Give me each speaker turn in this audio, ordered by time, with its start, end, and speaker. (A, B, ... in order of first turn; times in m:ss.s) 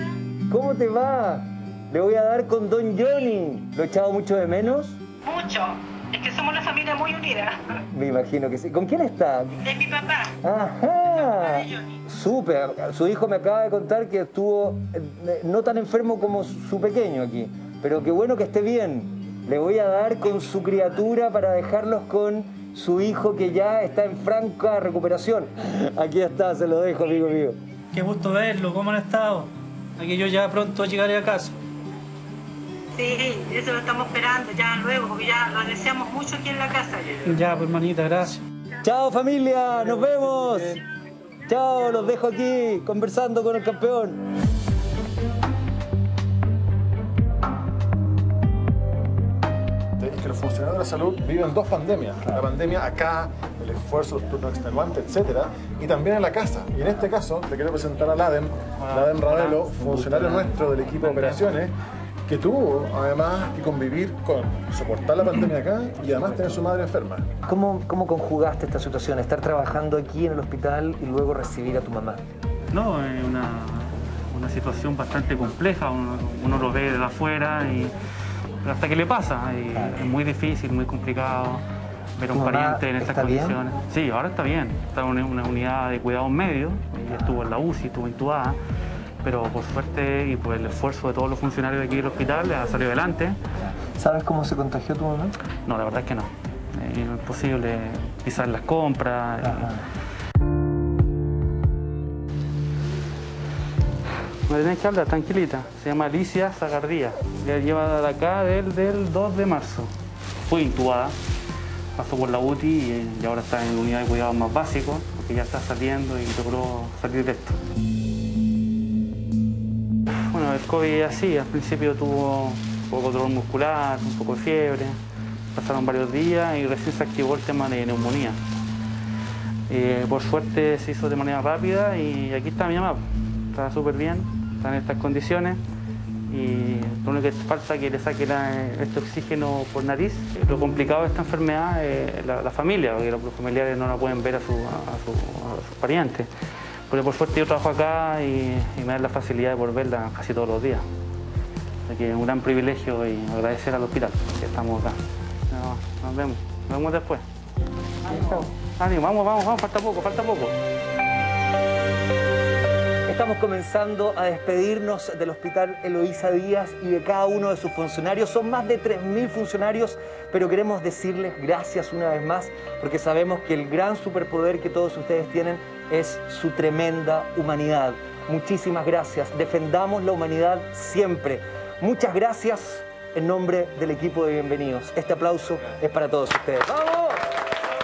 0:00.5-0:05.0 A
0:05.2-0:07.8 B
0:07.9-0:09.6 A
0:09.6-0:10.3 B
0:10.4-0:27.6 A
0:11.4-0:11.7 B
0:27.9-0:31.6 C
0:33.0-0:37.4 B
0:37.3-0:38.4 C
0:38.8-0:40.8 A
0:39.9-0:40.5 C
0:41.5-0:44.2 A
0:50.0-1:01.7 D
0:58.8-1:01.6 E
1:02.3-1:07.3 D
1:07.4-1:12.2 A
1:12.7-1:17.9 E
1:18.6-1:21.6 E
1:19.7-1:20.1 A
1:22.2-1:28.6 E
1:22.3-1:23.6 A
1:27.1-1:27.5 A
1:29.2-1:33.4 E
1:33.6-1:35.4 A
1:35.7-1:39.8 E
1:39.4-1:39.8 A
1:44.5-1:49.9 E
1:50.5-1:51.2 E
1:52.0-1:57.6 E
2:00.3-2:05.0 E
2:05.5-2:08.4 E
2:09.7-2:13.0 E
2:13.5-2:15.6 E
2:16.3-2:26.3 E
2:26.9-2:30.8 E
2:31.9-2:35.0 E
2:35.5-2:37.2 E
2:38.0-2:40.6 E
2:43.1-3:07.2 A